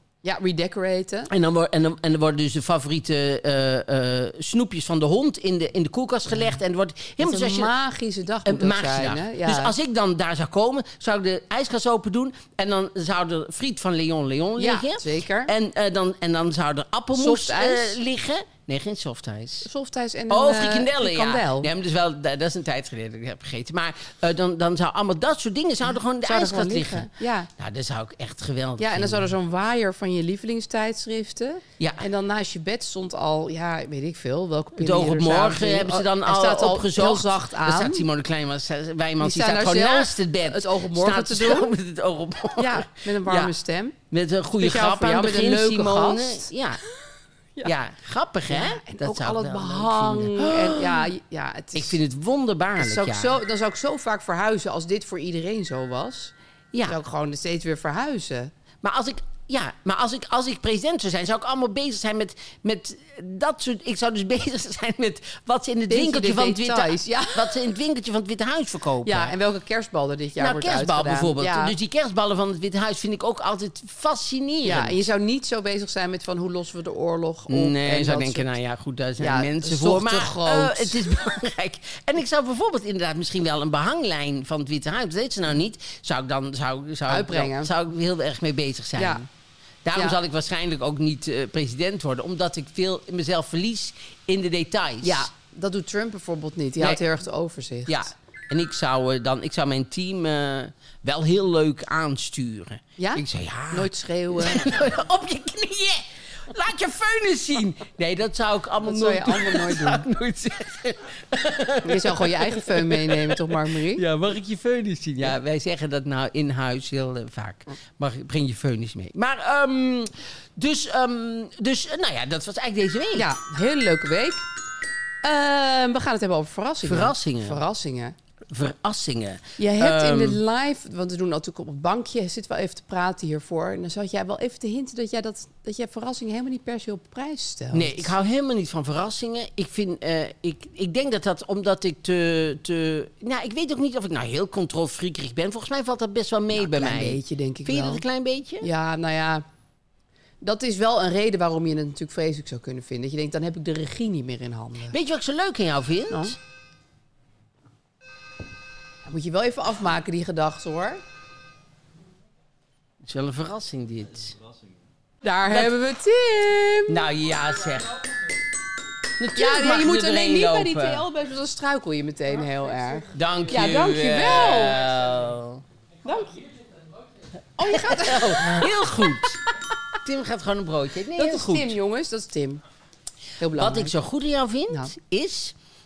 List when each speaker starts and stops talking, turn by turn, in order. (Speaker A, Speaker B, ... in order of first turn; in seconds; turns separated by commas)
Speaker A: 0.2-1.3, Speaker B: 1.3-7.7, Speaker A: 7.2-9.7, Speaker B: 8.4-19.7, Speaker A: 14.6-15.5, Speaker A: 17.1-18.0, Speaker A: 19.6-21.7, Speaker B: 20.3-29.3, Speaker A: 26.2-27.5, Speaker A: 28.8-38.0, Speaker B: 31.8-32.0, Speaker B: 34.8-43.5, Speaker A: 39.2-41.7, Speaker A: 42.6-44.0, Speaker B: 44.1-46.8, Speaker A: 44.6-46.5, Speaker B: 47.6-51.1, Speaker A: 48.5-52.0, Speaker B: 51.7-53.4, Speaker A: 52.8-56.3, Speaker A: 56.9-58.5, Speaker B: 58.8-69.3, Speaker A: 65.9-67.6, Speaker A: 69.0-71.7, Speaker B: 70.4-75.0, Speaker A: 74.6-78.5, Speaker B: 77.5-89.3, Speaker A: 79.2-81.0, Speaker A: 87.1-87.7, Speaker A: 89.0-89.2, Speaker B: 89.8-95.3, Speaker A: 95.0-98.1, Speaker B: 97.9-123.3, Speaker A: 103.0-104.7, Speaker A: 108.8-110.1, Speaker A: 111.8-114.0, Speaker A: 123.2-124.4, Speaker A: 125.2-128.2, Speaker B: 126.8-127.6, Speaker B: 128.5-130.4, Speaker A: 129.6-138.1, Speaker B: 137.7-148.7, Speaker A: 146.5-148.0, Speaker A: 148.6-149.4, Speaker A: 150.4-154.9, Speaker B: 154.9-156.4, Speaker A: 156.1-156.4, Speaker A: 159.1-161.0, Speaker B: 163.1-164.4, Speaker A: 165.2-167.0, Speaker B: 166.9-168.0, Speaker B: 169.2-171.0, Speaker A: 169.4-174.8, Speaker B: 173.1-175.6, Speaker A: 176.1-176.4, Speaker A: 177.6-178.7, Speaker B: 177.7-179.4, Speaker B: 180.1-181.8, Speaker A: 181.2-182.6, Speaker A: 183.4-183.9, Speaker B: 183.6-185.5